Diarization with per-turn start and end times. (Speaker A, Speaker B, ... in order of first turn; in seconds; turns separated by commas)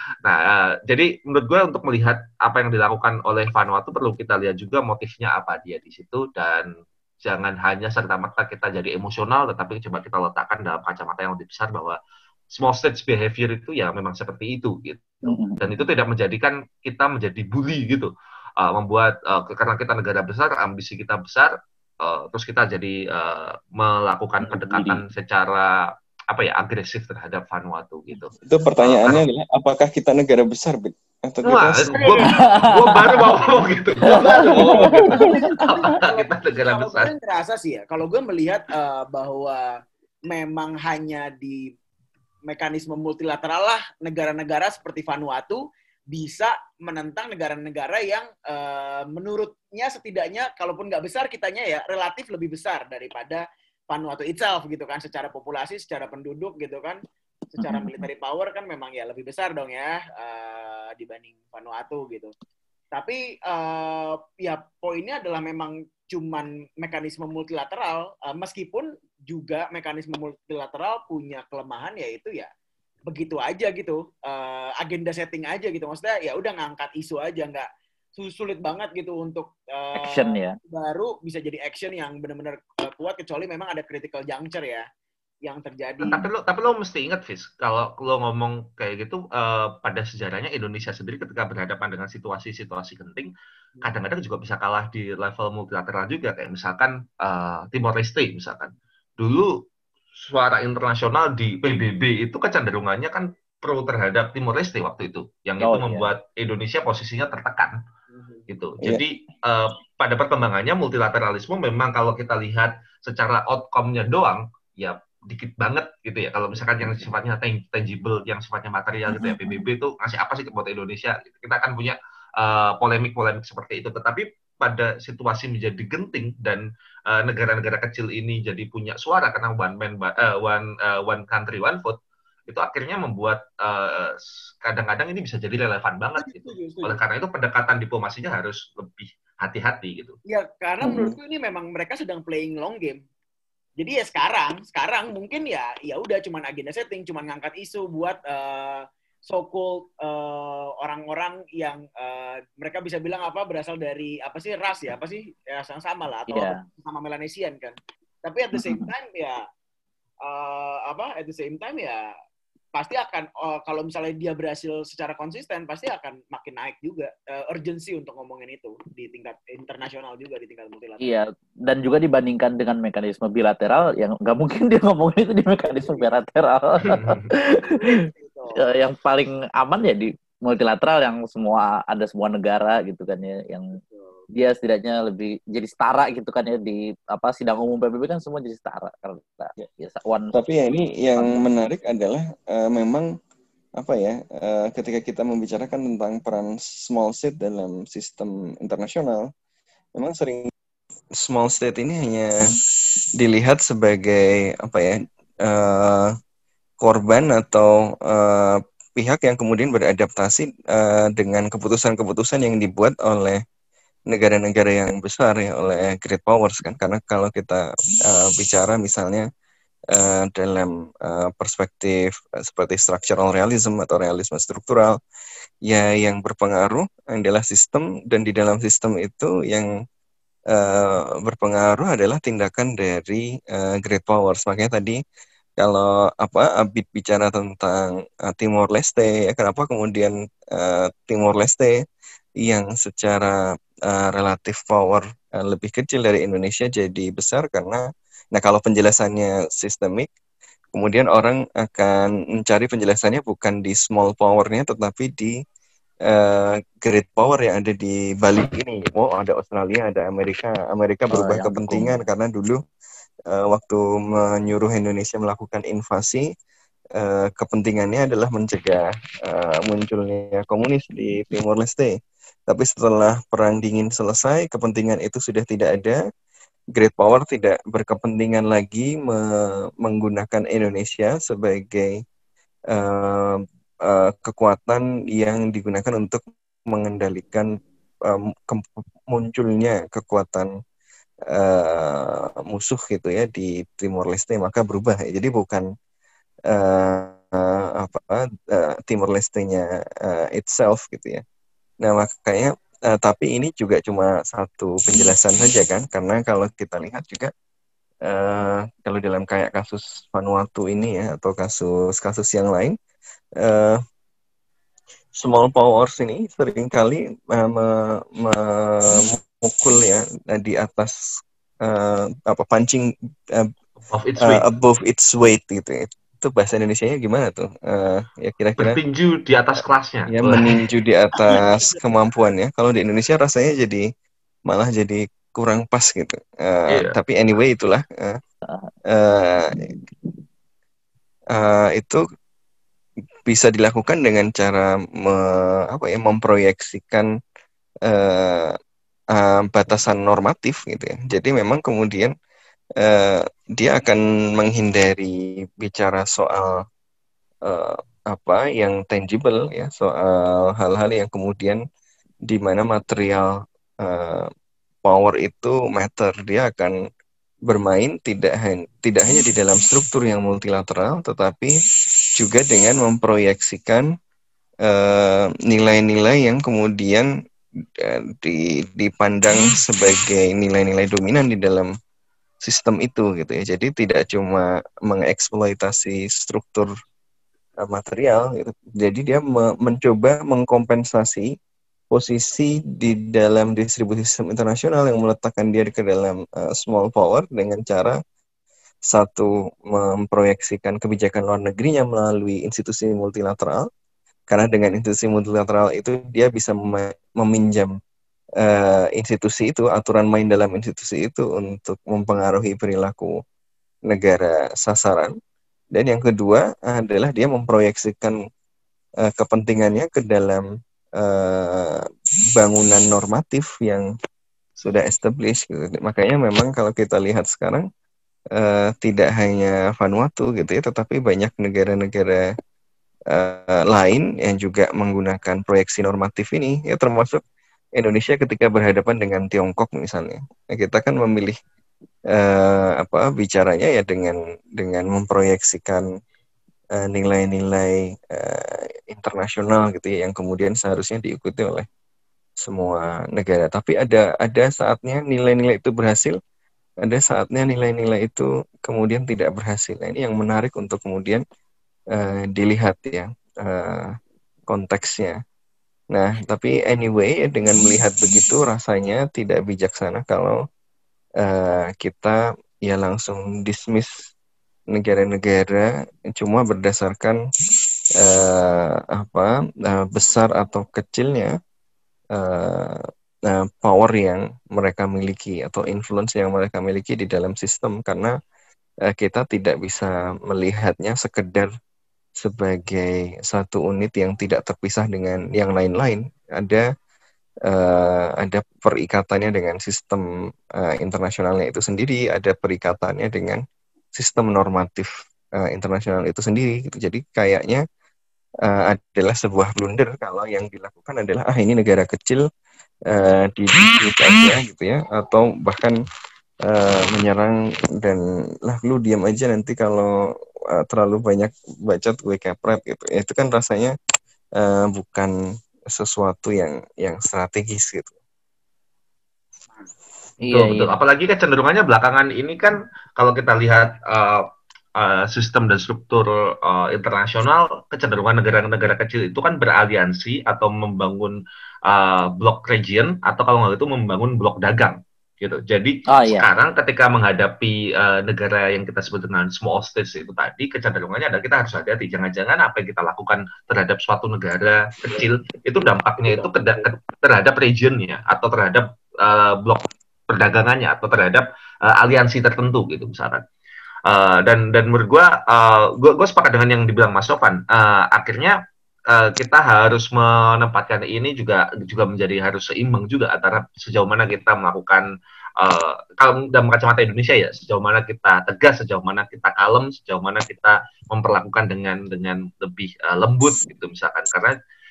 Speaker A: 0.2-6.7, Speaker A: 7.2-12.0, Speaker A: 12.5-29.2, Speaker B: 15.2-15.6, Speaker B: 24.4-25.0, Speaker C: 28.4-32.0, Speaker A: 31.4-37.1, Speaker D: 31.9-32.4, Speaker B: 32.2-33.3, Speaker B: 34.0-35.4, Speaker D: 34.0-41.7, Speaker D: 42.5-57.0, Speaker D: 57.5-62.3, Speaker B: 57.6-58.1, Speaker D: 62.9-72.5, Speaker D: 73.1-84.8, Speaker B: 80.0-80.5, Speaker D: 85.4-86.3, Speaker A: 86.0-99.5, Speaker A: 100.2-107.8, Speaker B: 105.6-106.1, Speaker D: 108.1-108.4, Speaker A: 108.5-140.1, Speaker D: 136.2-137.0, Speaker D: 140.3-143.0, Speaker C: 140.8-141.2, Speaker D: 143.8-159.4, Speaker B: 156.3-156.6, Speaker B: 158.6-158.9, Speaker D: 160.2-162.1, Speaker D: 162.7-171.0, Speaker B: 171.0-177.9, Speaker D: 175.7-176.1, Speaker A: 176.8-177.3, Speaker D: 177.4-178.6, Speaker B: 178.6-183.7, Speaker D: 183.8-184.2, Speaker B: 184.3-190.4, Speaker C: 190.3-193.1, Speaker B: 191.1-191.4, Speaker C: 193.8-199.3, Speaker C: 199.9-200.5, Speaker C: 201.2-202.4, Speaker C: 203.2-206.1, Speaker C: 206.8-213.4, Speaker C: 214.1-219.3, Speaker C: 219.9-225.0, Speaker C: 225.7-229.7, Speaker C: 230.5-235.0, Speaker C: 235.6-241.8, Speaker C: 242.4-243.4, Speaker C: 243.9-250.1, Speaker C: 250.7-255.3, Speaker C: 256.1-262.6, Speaker B: 261.1-262.0, Speaker C: 263.3-266.3, Speaker C: 267.0-271.9, Speaker C: 272.5-276.0, Speaker C: 276.7-282.0, Speaker C: 282.7-287.5, Speaker C: 288.1-290.5, Speaker C: 291.3-295.7, Speaker C: 296.5-301.2, Speaker C: 301.8-307.3, Speaker C: 308.1-312.8, Speaker C: 313.4-313.8, Speaker C: 315.2-320.9, Speaker C: 321.6-323.5, Speaker A: 323.9-324.4, Speaker C: 324.2-328.8, Speaker A: 328.6-330.5, Speaker C: 330.1-333.8, Speaker C: 334.5-338.2, Speaker C: 338.9-339.5, Speaker C: 341.3-342.0, Speaker C: 343.3-347.1, Speaker C: 347.9-348.5, Speaker C: 349.1-352.1, Speaker C: 352.8-356.6, Speaker C: 357.4-361.6, Speaker C: 362.3-364.3, Speaker C: 364.8-366.7, Speaker C: 367.5-371.5, Speaker C: 372.1-373.9, Speaker C: 374.7-377.1, Speaker C: 377.8-381.7, Speaker C: 382.4-386.7, Speaker C: 387.6-391.3, Speaker C: 391.9-398.0, Speaker C: 398.9-403.7, Speaker C: 404.3-407.7, Speaker C: 408.4-413.1, Speaker C: 413.9-415.1, Speaker C: 415.7-418.1, Speaker C: 419.1-420.4, Speaker C: 421.0-421.8, Speaker C: 422.4-423.9, Speaker C: 424.6-427.6, Speaker C: 428.4-432.3, Speaker C: 433.1-437.2, Speaker C: 437.8-441.3, Speaker C: 442.1-445.8, Speaker C: 446.8-451.7, Speaker C: 452.4-456.2, Speaker C: 456.8-461.2, Speaker C: 461.9-464.0, Speaker C: 464.5-465.2, Speaker C: 465.9-470.4, Speaker C: 471.2-474.1, Speaker C: 474.7-477.2, Speaker C: 478.0-481.3, Speaker C: 482.1-488.1, Speaker C: 488.9-491.5, Speaker C: 492.2-496.6, Speaker C: 497.5-500.0, Speaker C: 500.6-503.4, Speaker C: 503.9-507.6, Speaker C: 508.5-512.2, Speaker C: 512.9-515.8, Speaker C: 516.5-519.9, Speaker C: 520.6-523.8, Speaker C: 524.4-525.1, Speaker C: 525.7-527.9, Speaker B: 530.2-530.7, Speaker A: 530.3-534.2, Speaker A: 534.8-563.2, Speaker B: 545.9-546.2, Speaker D: 556.0-556.7, Speaker A: 563.9-568.4, Speaker A: 568.9-574.9, Speaker A: 575.4-584.3